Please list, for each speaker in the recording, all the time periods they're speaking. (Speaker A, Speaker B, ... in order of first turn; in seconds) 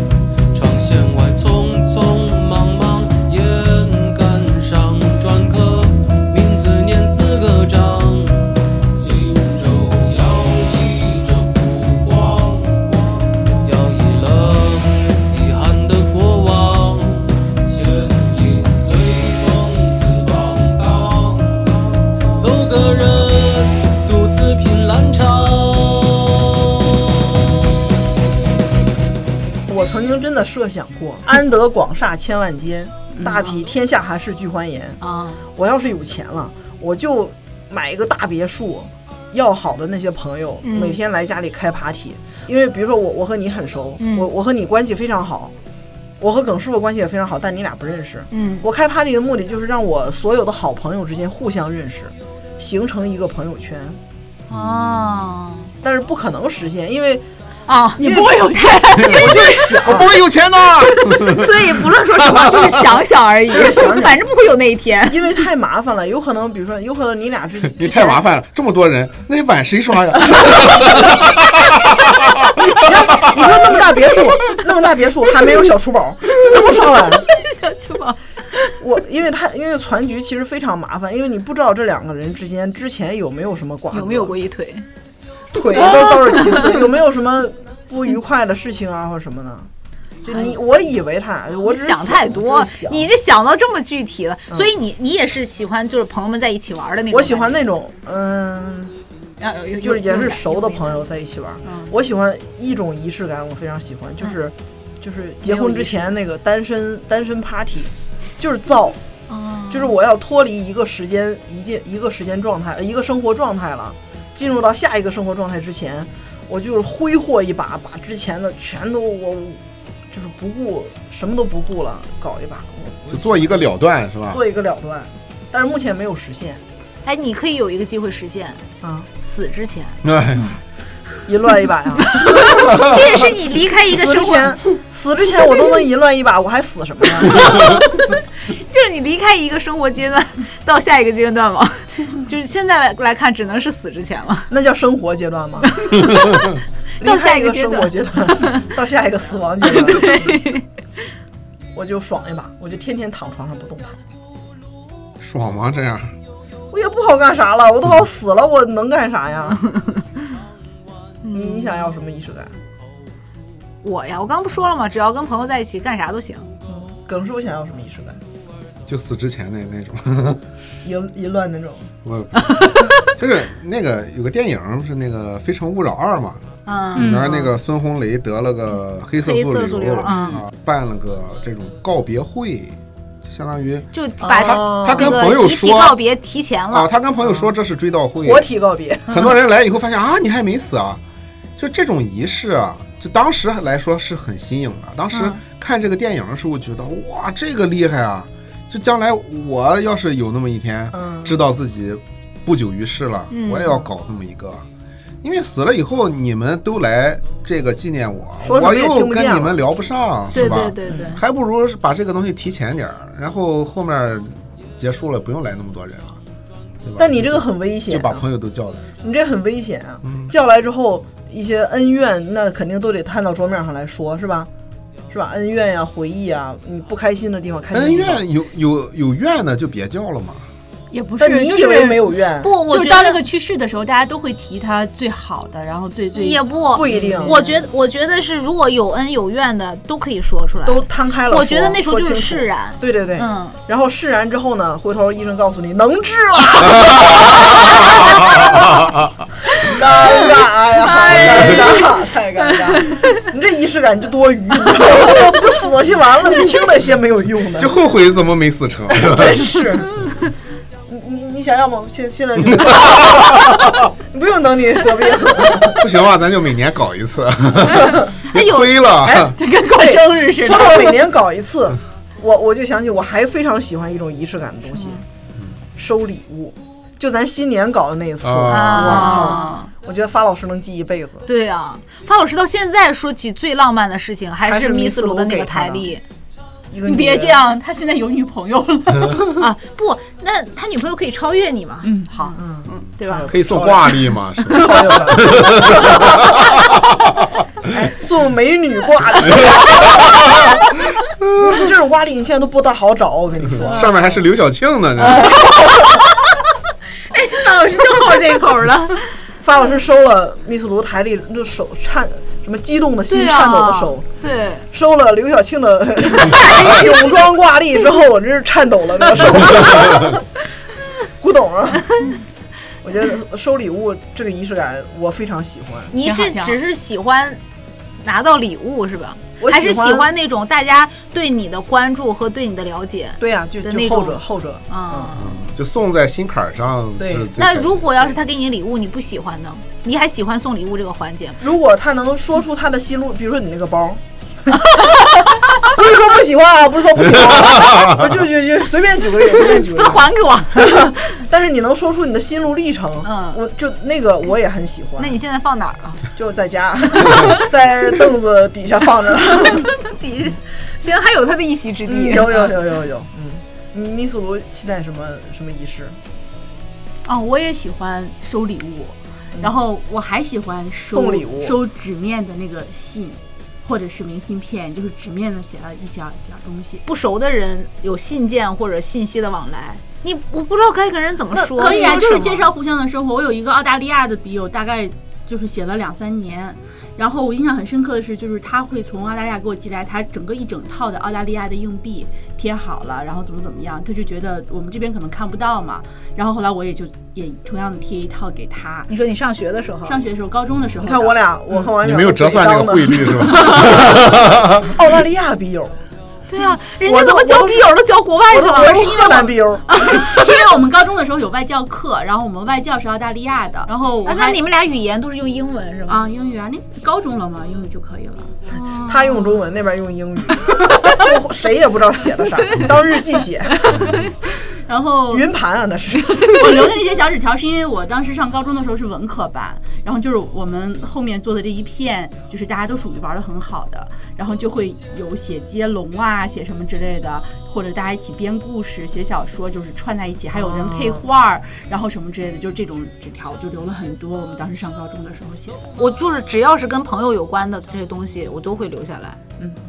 Speaker A: 0.5-13.0, 13.6-21.7, 22.4-26.6
Speaker B: 29.7-35.0, 35.5-45.5, 46.2-54.0, 55.8-57.2, 58.0-60.1, 63.5-64.2, 65.1-68.2, 70.3-71.2, 72.6-77.2, 78.8-84.3, 85.5-89.7, 90.2-93.1, 97.1-99.0, 99.8-109.0, 109.7-123.7, 124.3-126.6, 128.8-129.1, 131.2-137.7, 144.5-145.9, 147.0-150.4, 151.7-154.0, 156.7-159.7, 161.3-162.5, 166.7-168.2, 170.8-171.9, 177.0-177.5, 184.2-185.2, 188.2-189.3, 200.9-201.4, 208.4-209.6, 210.5-211.2, 217.0-218.2, 219.0-224.5, 225.1-228.2, 231.2-232.5, 236.7-237.5, 240.6-248.7, 249.6-257.8, 258.9-259.9, 260.9-265.8, 267.7-268.1, 269.0-275.0, 275.8-281.3, 284.4-285.9, 286.7-287.4, 292.2-296.5, 297.7-300.6, 301.4-304.1, 305.1-306.0, 309.4-314.1, 314.7-320.2, 321.2-322.1, 322.8-325.9, 329.4-330.1, 333.2-335.1, 337.0-337.3, 341.4-355.2, 356.1-359.7, 361.9-366.0, 370.9-371.5, 381.3-382.3, 400.8-404.1, 404.6-405.8, 406.8-410.0, 418.9-423.6, 425.1-426.2, 440.3-441.0
Speaker C: 33.2-33.6, 35.0-35.4, 40.6-41.0, 44.0-44.3, 48.3-48.6, 54.5-55.7, 57.7-60.0, 61.0-65.3, 76.3-78.2, 83.9-84.8, 86.0-86.7, 90.3-90.6, 91.6-97.6, 99.4-101.0, 101.6-101.9, 105.4-106.1, 109.3-109.9, 127.0-128.6, 129.2-130.0, 132.1-134.6, 137.2-144.5, 145.7-148.6, 149.7-150.6, 161.2-161.9, 163.8-166.5, 172.5-172.9, 176.7-177.4, 179.2-180.4, 183.9-186.9, 203.3-203.8, 210.3-211.2, 232.4-233.2, 236.1-243.6, 250.8-251.9, 268.3-268.9, 274.7-275.0, 278.5-279.6, 281.3-286.0, 289.2-292.0, 292.7-293.4, 305.0-306.4, 307.1-309.1, 313.1-314.7, 316.4-316.7, 325.9-327.4, 328.0-335.4, 337.4-341.4, 344.7-345.7, 349.3-351.2, 353.0-353.4, 355.0-356.0, 356.9-357.4, 359.4-362.5, 376.9-382.4, 398.9-400.0, 406.3-410.3, 414.0-416.1, 418.5-419.4, 445.8-449.2
Speaker D: 54.5-55.2, 59.0-63.0, 67.8-73.4, 123.1-124.4, 130.0-130.5, 155.2-156.1, 168.9-170.4, 172.0-176.4, 176.9-186.0, 186.7-188.5, 189.1-191.0, 191.6-204.7, 205.2-216.2, 216.8-218.8, 220.0-220.3, 227.7-230.4, 257.6-259.9, 265.7-269.3, 278.2-279.3, 293.2-296.8, 303.7-305.4, 335.1-337.9, 401.8-404.7
Speaker E: 58.0-59.3, 180.0-180.4, 230.9-232.1, 232.7-237.6, 269.3-271.0, 278.8-279.7, 286.8-289.2, 291.8-292.8, 326.0-326.6, 367.0-376.8, 381.5-398.9, 399.9-401.2, 409.7-414.4, 415.9-418.3, 424.6-425.3, 426.1-445.7